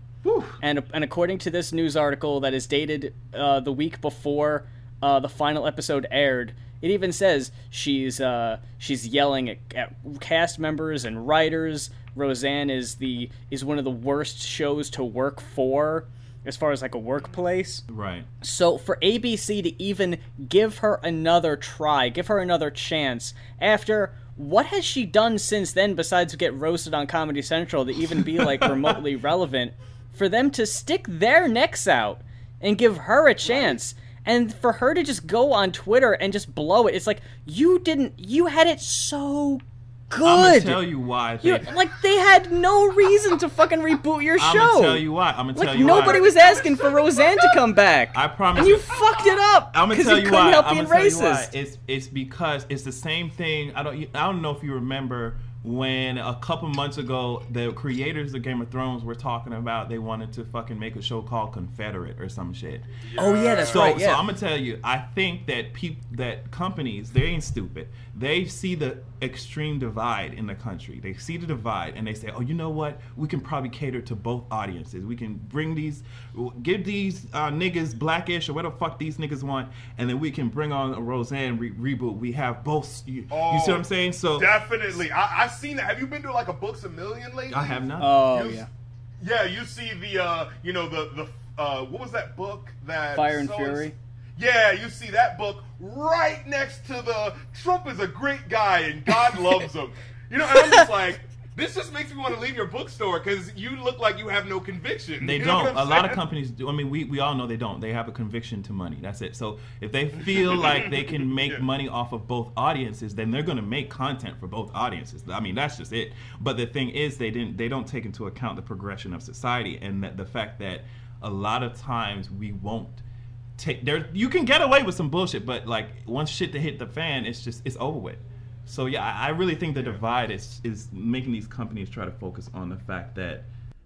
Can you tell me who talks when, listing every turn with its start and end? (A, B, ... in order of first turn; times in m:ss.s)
0:00.2-0:00.6 A
0:00.6-0:17.8 B
0:17.9-0:18.3 A
0:18.4-0:40.8 B
0:28.2-0:29.0 A
0:40.2-0:41.7 A
0:41.4-0:51.5 B
0:44.4-0:46.2 A
0:46.0-0:46.8 C
0:48.1-0:49.0 A
0:49.7-1:02.8 A
1:03.0-1:04.0 C
1:03.2-1:04.2 B
1:03.6-1:24.6 A
1:23.3-1:28.7 C
1:27.5-1:28.1 A
1:28.0-1:28.7 B
1:29.2-1:46.2 C
1:33.2-1:34.0 B
1:40.6-1:40.8 B
1:45.2-2:03.0 A
1:50.5-1:51.6 C
2:03.6-2:13.5 A